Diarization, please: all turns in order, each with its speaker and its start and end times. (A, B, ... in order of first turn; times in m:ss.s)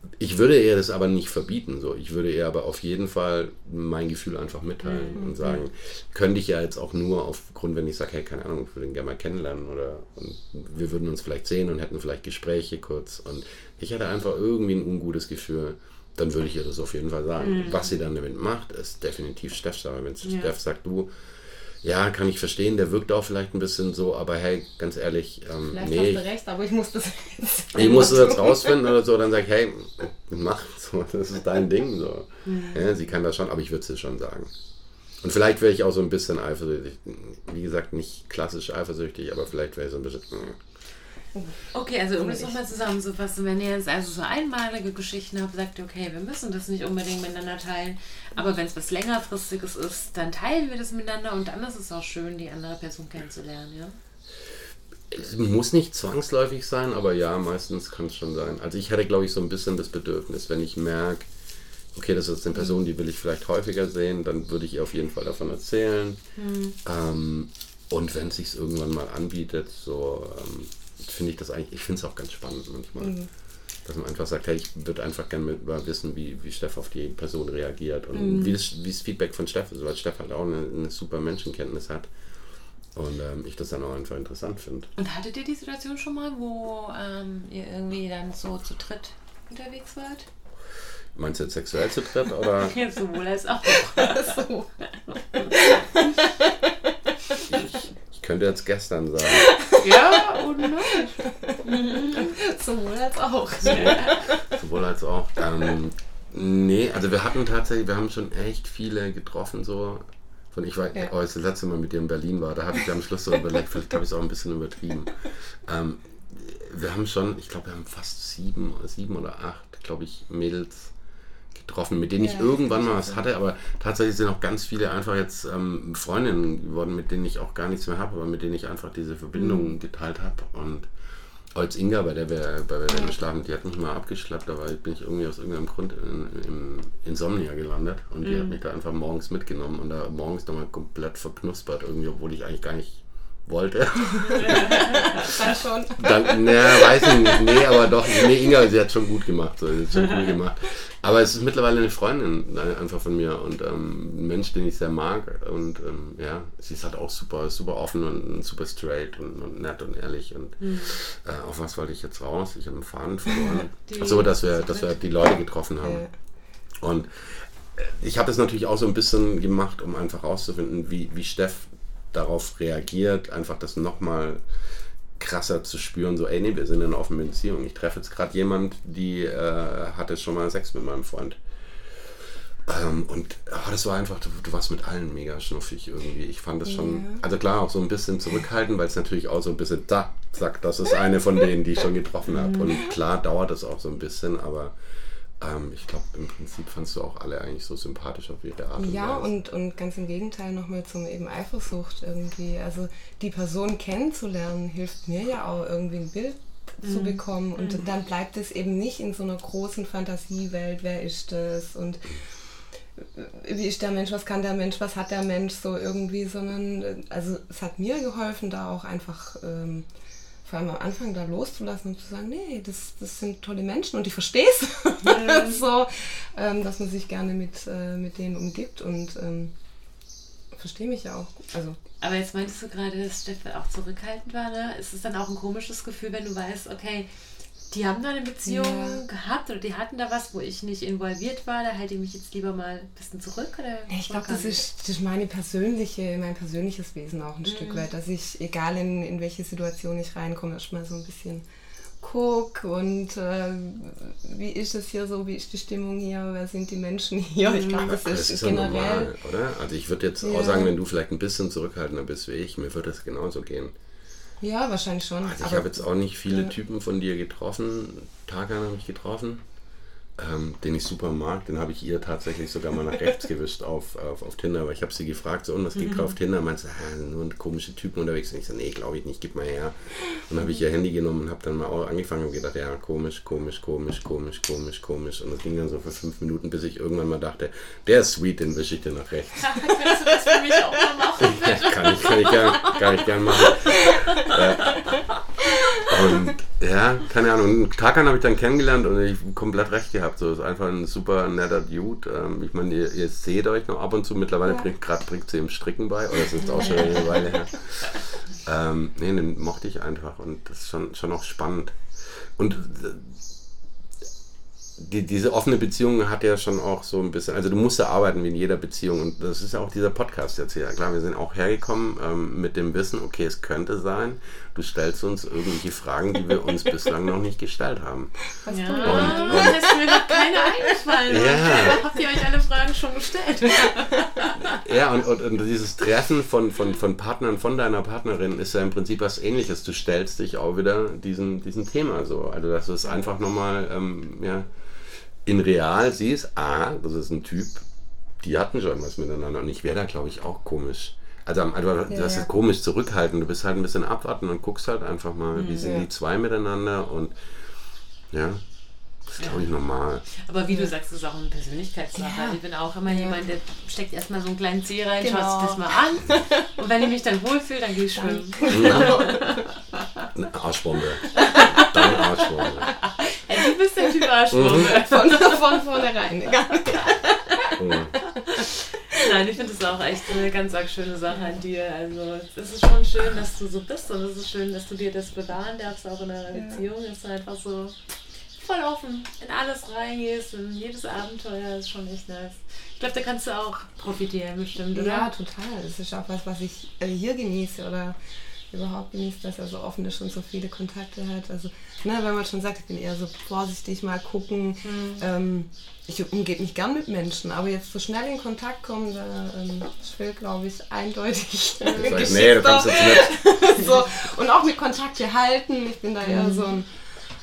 0:00.2-0:21.1 A
0:04.8-0:05.7 B
0:17.4-0:17.9 B
0:20.2-0:20.5 B
0:21.8-0:26.3 A
0:25.7-0:29.0 C
0:27.7-0:34.5 A
0:32.4-0:32.9 B
0:35.2-0:40.6 A
0:41.7-0:54.0 B
0:42.2-0:42.6 C
0:55.1-1:01.3 A
1:02.0-1:06.2 A
1:06.4-1:06.8 B
1:06.8-1:13.3 A
1:13.0-1:13.3 C
1:13.8-1:22.1 A
1:18.1-1:18.6 B
1:22.9-1:24.9 A
1:25.0-1:30.3 B
1:31.2-1:32.8 A
1:32.6-1:34.4 B
1:33.9-1:34.7 C
1:35.1-1:36.1 B
1:35.4-1:37.4 C
1:37.4-1:39.5 A
1:39.3-1:44.5 C
1:39.8-1:42.3 B
1:43.6-1:44.2 B
1:43.6-2:00.9 A
2:01.5-2:10.9 A
2:02.2-2:03.2 C
2:09.4-2:09.7 B
2:11.5-2:46.1 A
2:18.2-2:18.6 B
2:24.3-2:25.3 B
2:25.2-2:28.5 C
2:40.6-2:41.0 B
2:43.8-2:45.0 B
2:45.8-2:46.1 C
2:46.8-2:54.4 A
2:55.2-3:14.7 A
3:06.7-3:07.2 C
3:12.3-3:12.8 B
3:15.4-3:19.3 A
3:18.8-3:32.2 C
3:26.8-3:27.9 B
3:33.0-3:39.9 C
3:40.4-3:49.5 C
3:45.0-3:45.6 B
3:50.5-3:51.8 C
3:52.0-3:57.1 B
3:57.7-4:04.6 B
3:58.5-3:59.0 C
4:03.9-4:11.4 C
4:07.4-4:07.9 B
4:12.0-4:19.1 C
4:17.8-4:23.7 A
4:20.2-4:20.7 C
4:24.4-4:26.6 C
4:25.2-4:29.4 A
4:30.2-4:49.8 A
4:35.8-4:36.1 B
4:49.4-4:55.2 B
4:51.2-5:13.2 A
4:55.5-4:56.3 C
5:06.6-5:07.1 B
5:14.8-5:29.6 A
5:28.4-5:30.8 C
5:28.5-5:34.6 B
5:31.1-5:31.8 A
5:34.4-5:44.5 A
5:45.2-5:47.6 A
5:48.2-5:57.3 A
5:51.9-5:52.3 C
5:55.4-5:55.8 B
5:55.6-5:55.9 C
5:58.1-5:58.4 A
5:59.1-6:00.1 A
5:59.2-5:59.5 B
6:00.1-6:10.1 B
6:02.0-6:03.3 C
6:05.0-6:06.4 C
6:08.0-6:09.4 C
6:08.5-6:09.1 A
6:10.1-6:12.8 A
6:11.1-6:15.6 B
6:11.3-6:11.7 C
6:14.3-6:14.8 A
6:14.6-6:17.5 C
6:17.3-6:27.8 B
6:17.6-6:18.0 A
6:18.4-6:19.2 C
6:26.3-6:26.6 C
6:28.4-6:35.1 B
6:34.7-6:38.0 C
6:38.5-6:56.8 C
6:44.6-6:45.0 B
6:51.6-6:52.0 B
6:51.8-6:53.6 A
6:56.0-6:56.5 B